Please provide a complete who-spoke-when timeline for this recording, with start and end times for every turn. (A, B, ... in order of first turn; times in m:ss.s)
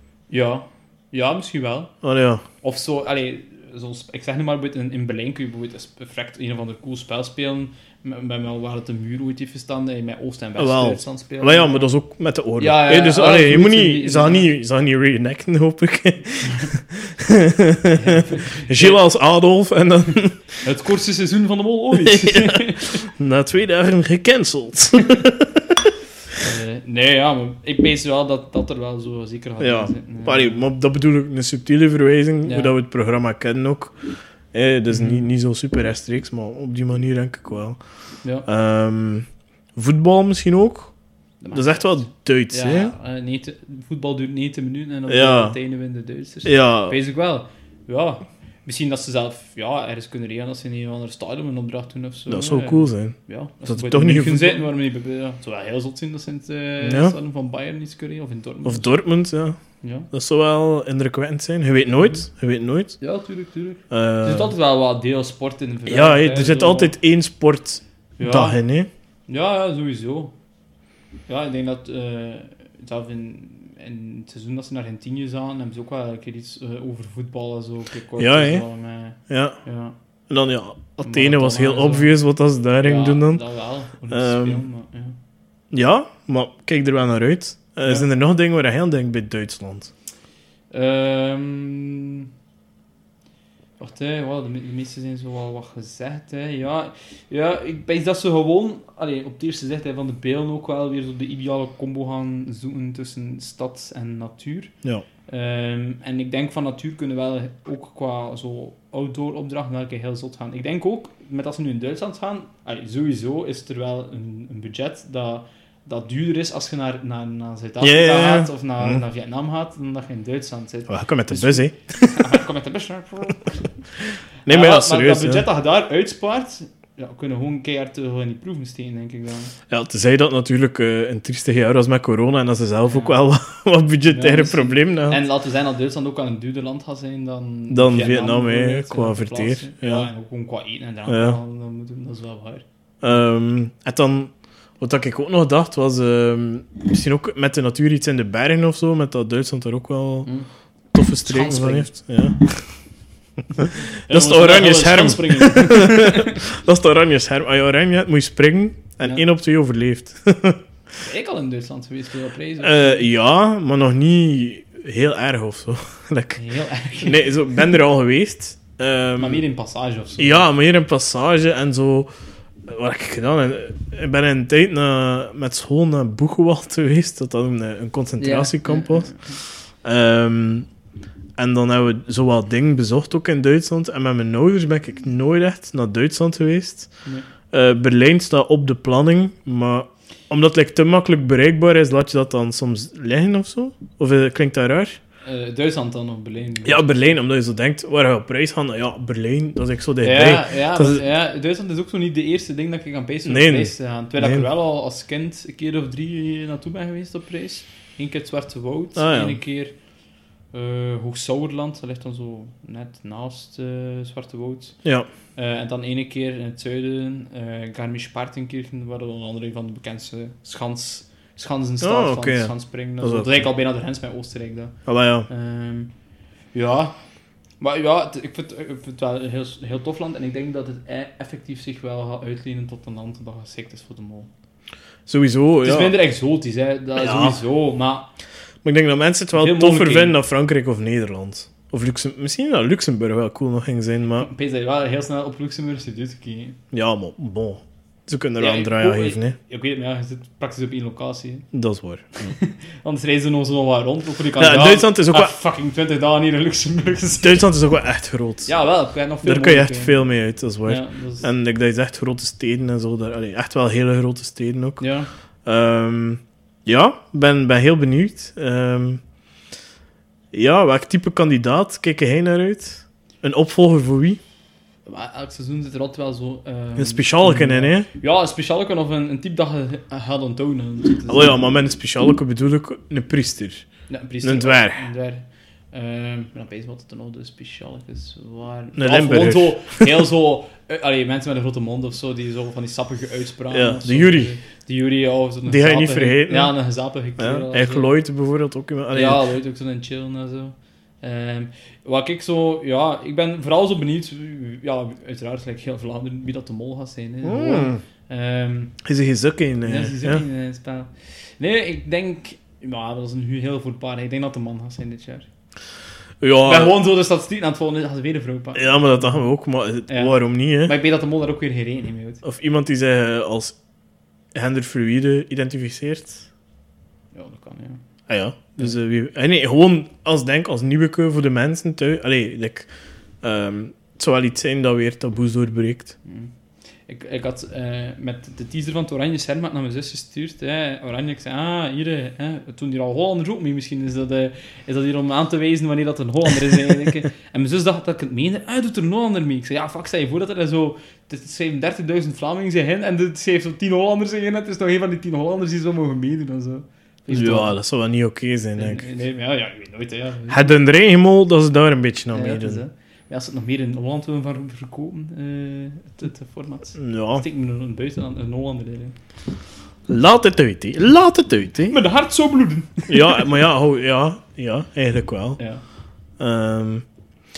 0:00.3-0:01.9 A
0:02.0-0:02.4 B
0:02.6-0:11.9 A
0:10.6-0:20.6 B
0:12.6-0:14.5 A
0:17.9-0:19.0 A
0:20.6-0:23.0 A
0:22.0-0:25.9 B
0:26.4-0:30.6 A
0:29.6-0:34.0 B
0:32.4-0:32.7 A
0:34.5-0:37.8 B
0:34.9-0:35.3 A
0:38.5-0:40.9 B
0:41.4-0:59.0 A
0:41.5-0:42.9 B
0:45.1-0:45.6 B
0:46.4-0:47.0 B
0:52.3-0:54.6 B
0:56.8-0:57.2 B
0:58.6-0:59.6 B
0:59.8-1:00.1 A
1:00.1-1:03.0 B
1:03.0-1:06.9 A
1:03.9-1:04.5 B
1:05.9-1:08.9 B
1:08.2-1:08.6 A
1:09.3-1:10.4 A
1:11.3-1:20.0 A
1:18.2-1:18.6 B
1:19.3-1:19.6 B
1:20.3-1:23.4 B
1:21.0-1:22.1 A
1:22.8-1:25.2 A
1:24.1-1:24.6 B
1:25.7-1:29.9 B
1:30.7-1:32.3 A
1:33.8-1:44.7 A
1:45.3-2:03.7 A
1:57.8-1:59.0 B
2:00.9-2:02.2 B
2:04.5-2:05.5 B
2:04.5-2:09.5 A
2:09.7-2:15.2 B
2:12.9-2:13.2 A
2:14.1-2:22.6 A
2:17.7-2:20.1 B
2:21.1-2:21.4 B
2:23.0-2:30.3 B
2:30.9-2:32.7 B
2:31.2-2:31.9 A
2:33.5-2:40.6 B
2:34.1-2:36.4 A
2:41.0-2:43.1 A
2:42.6-2:46.4 B
2:46.4-2:47.6 A
2:47.0-2:49.4 B
2:49.2-2:50.5 A
2:50.2-2:52.1 B
2:52.7-2:59.2 B
2:58.2-2:59.4 A
2:59.8-3:00.7 B
3:01.4-3:06.9 B
3:07.5-3:15.0 B
3:15.2-3:17.2 A
3:16.6-3:21.1 B
3:20.0-3:29.7 A
3:23.3-3:24.5 B
3:29.0-3:29.4 B
3:30.5-3:34.8 A
3:35.4-3:44.8 A
3:41.8-3:43.4 B
3:44.9-3:45.3 B
3:45.3-3:45.9 A
3:46.5-3:47.0 A
3:47.6-3:54.3 A
3:55.1-3:56.0 B
3:55.6-3:58.1 A
3:57.0-3:57.4 B
3:58.6-4:04.3 B
3:59.3-4:00.2 A
4:04.2-4:06.6 A
4:06.7-4:09.4 B
4:08.4-4:11.5 A
4:11.5-4:12.4 B
4:12.2-4:17.5 A
4:14.4-4:15.3 B
4:17.2-4:18.5 B
4:18.5-4:20.1 A
4:19.2-4:24.9 B
4:20.6-4:21.3 A
4:24.8-4:25.1 A
4:25.4-4:29.0 B
4:30.3-4:34.2 B
4:34.9-4:41.5 A
4:36.8-4:37.9 B
4:41.1-4:43.7 B
4:43.9-4:57.9 A
4:44.2-4:44.9 B
4:48.8-4:50.0 B
4:53.5-4:54.3 B
4:55.5-4:56.5 B
4:57.2-4:59.2 B
4:58.9-5:08.8 A
5:07.2-5:07.8 B
5:08.8-5:10.2 B
5:09.6-5:15.3 A
5:16.2-5:16.8 B
5:16.4-5:19.2 A
5:18.6-5:20.8 B
5:19.9-5:22.2 A
5:22.2-5:23.6 B
5:24.4-5:26.3 B
5:27.1-5:27.8 A
5:28.1-5:32.7 B
5:33.2-5:36.0 B
5:36.1-5:36.3 A
5:36.9-5:57.6 A
5:57.1-5:58.9 B
5:58.6-6:00.5 A
6:00.3-6:02.6 B
6:02.1-6:09.0 A
6:06.8-6:07.2 B
6:09.9-6:11.8 B
6:11.7-6:13.3 A
6:12.9-6:15.4 B
6:15.4-6:15.6 A
6:16.2-6:16.8 B